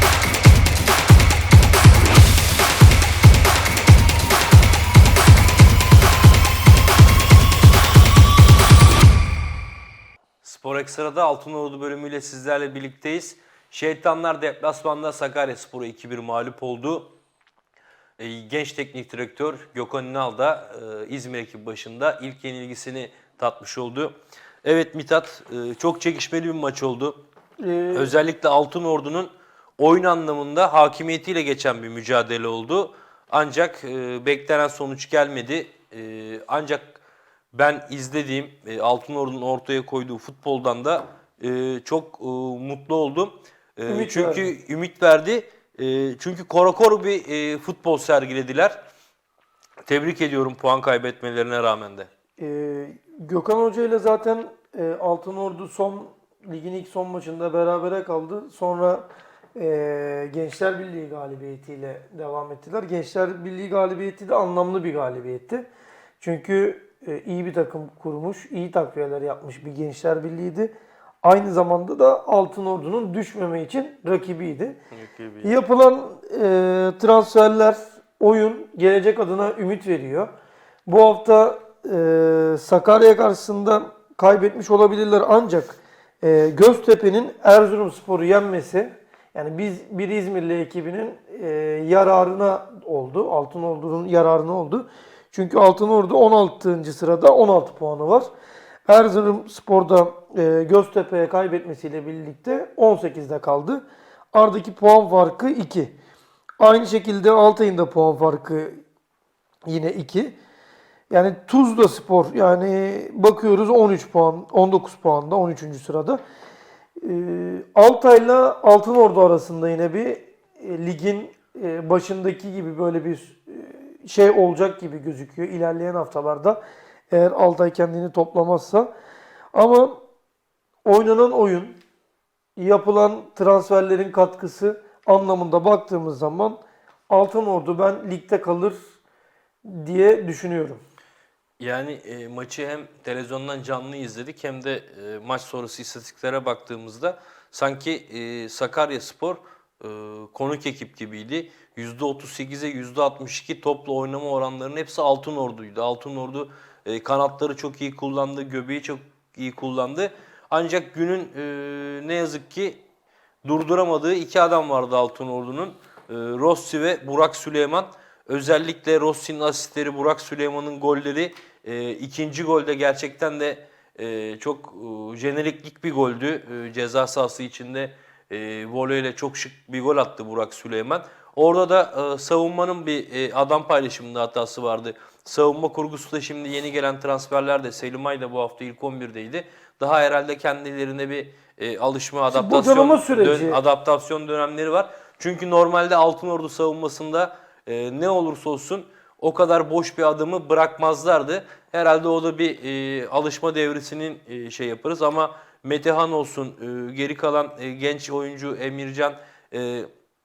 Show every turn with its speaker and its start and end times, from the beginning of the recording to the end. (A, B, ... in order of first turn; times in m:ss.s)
0:10.4-0:17.1 A
0:18.2-0:27.2 A
0:27.6-0:28.1 B
0:27.9-0:37.0 A
0:37.5-0:48.8 A
0:43.9-0:44.5 B
0:49.9-0:52.1 A
0:52.4-1:05.6 B
1:06.2-1:14.8 B
1:14.9-1:15.5 A
1:15.4-1:20.3 B
1:20.8-1:38.3 B
1:38.9-1:45.9 B
1:46.6-1:48.8 B
1:49.6-1:50.4 B
1:51.1-1:56.2 B
1:57.0-2:08.9 B
2:09.5-2:10.0 B
2:10.8-2:11.8 B
2:12.6-2:18.8 B
2:19.6-2:20.8 B
2:21.6-2:42.8 A
2:43.4-3:29.9 A
3:12.3-3:13.6 B